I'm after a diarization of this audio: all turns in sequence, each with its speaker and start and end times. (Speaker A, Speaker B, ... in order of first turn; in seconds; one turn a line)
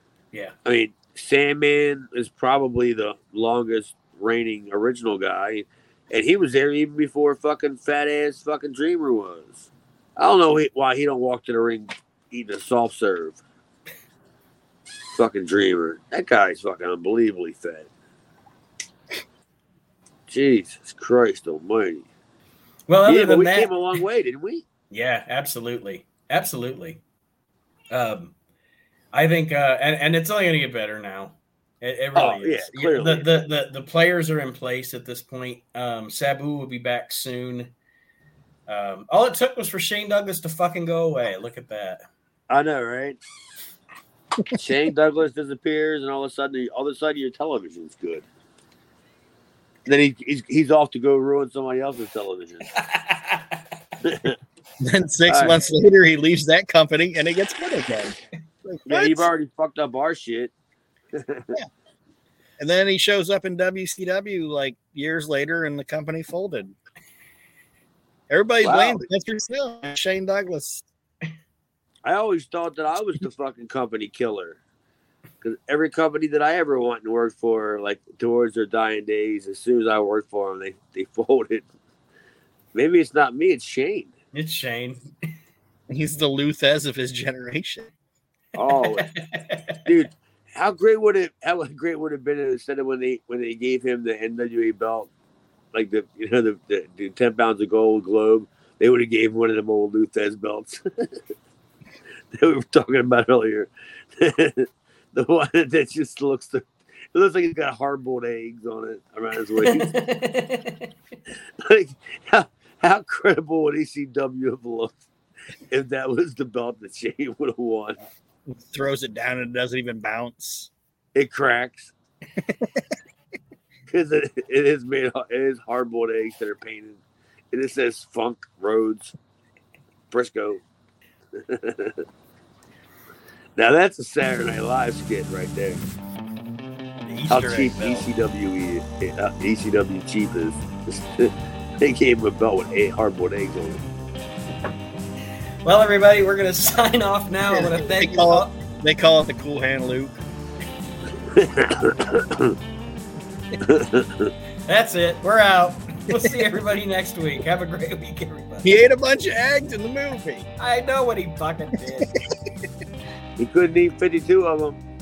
Speaker A: 0.6-13.4
Speaker A: 15.2-17.9
Speaker A: 20.3-22.1
Speaker B: 22.9-23.7
Speaker A: 23.1-24.6
Speaker B: 24.9-27.0
Speaker B: 27.9-28.3
Speaker B: 29.1-37.7
Speaker A: 32.1-33.3
Speaker B: 38.7-42.0
Speaker A: 42.5-43.2
Speaker A: 44.5-48.2
Speaker A: 49.9-52.7
Speaker B: 52.7-53.6
Speaker A: 54.0-54.4
Speaker C: 54.8-59.3
Speaker A: 55.3-55.6
Speaker A: 58.9-60.5
Speaker A: 61.1-61.6
Speaker C: 62.6-66.7
Speaker C: 68.3-70.8
Speaker A: 68.6-69.0
Speaker A: 72.0-74.6
Speaker A: 75.4-81.7
Speaker A: 82.7-84.1
Speaker B: 84.3-85.1
Speaker C: 85.9-87.9
Speaker A: 88.5-89.1
Speaker B: 88.7-89.9
Speaker A: 89.8-95.1
Speaker A: 95.7-101.1
Speaker A: 102.3-109.9
Speaker B: 109.6-110.9
Speaker A: 111.6-115.0
Speaker A: 115.7-118.0
Speaker C: 118.7-120.7
Speaker A: 121.1-121.9
Speaker C: 122.4-122.8
Speaker A: 123.9-127.0
Speaker A: 127.5-129.1
Speaker A: 130.1-130.6
Speaker A: 131.3-132.0
Speaker A: 133.6-135.8
Speaker B: 137.0-138.1
Speaker A: 137.3-143.8
Speaker B: 145.6-148.5
Speaker C: 147.5-150.1
Speaker A: 151.3-152.5
Speaker A: 153.6-154.3
Speaker B: 154.7-158.7
Speaker C: 158.6-160.5
Speaker B: 160.6-162.1
Speaker A: 163.4-164.8